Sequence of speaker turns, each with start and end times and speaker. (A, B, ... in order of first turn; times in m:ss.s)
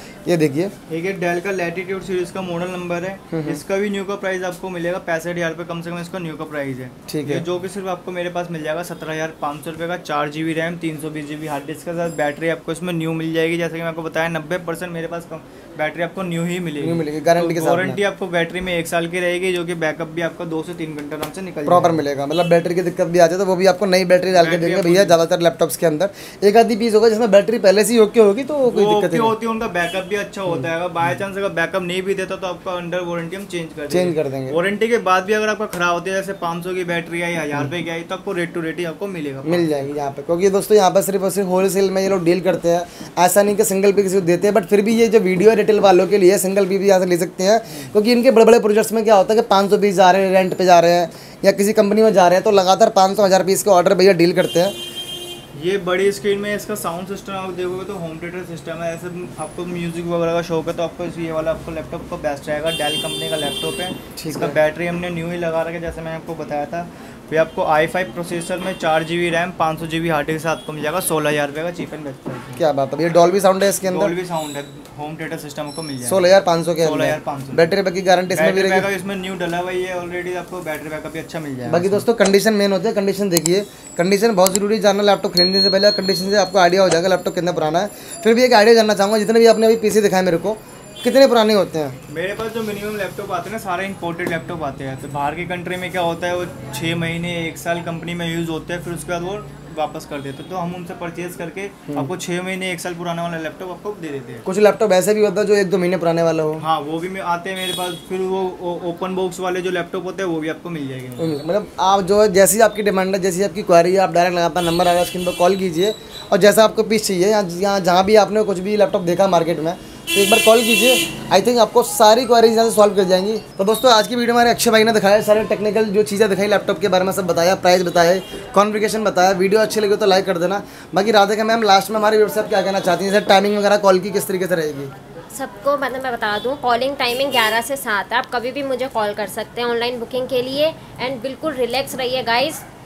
0:00.2-0:00.7 A
0:00.9-0:22.0 B
0:03.3-0:03.6 A
0:07.1-0:07.4 A
0:16.8-0:18.0 A
0:21.6-0:29.4 A
0:24.3-0:25.2 B
0:28.7-0:39.8 B
0:33.9-0:34.6 A
0:39.4-0:54.7 A
0:55.5-1:12.6 B
1:04.2-1:04.6 A
1:12.6-1:14.1 A
1:13.8-1:16.3 B
1:16.0-1:18.9 A
1:16.8-1:17.7 B
1:18.3-1:22.0 B
1:21.6-1:32.0 A
1:32.1-1:44.4 B
1:44.4-1:46.6 A
1:46.6-1:51.4 B
1:51.2-2:14.9 A
2:15.3-2:22.6 C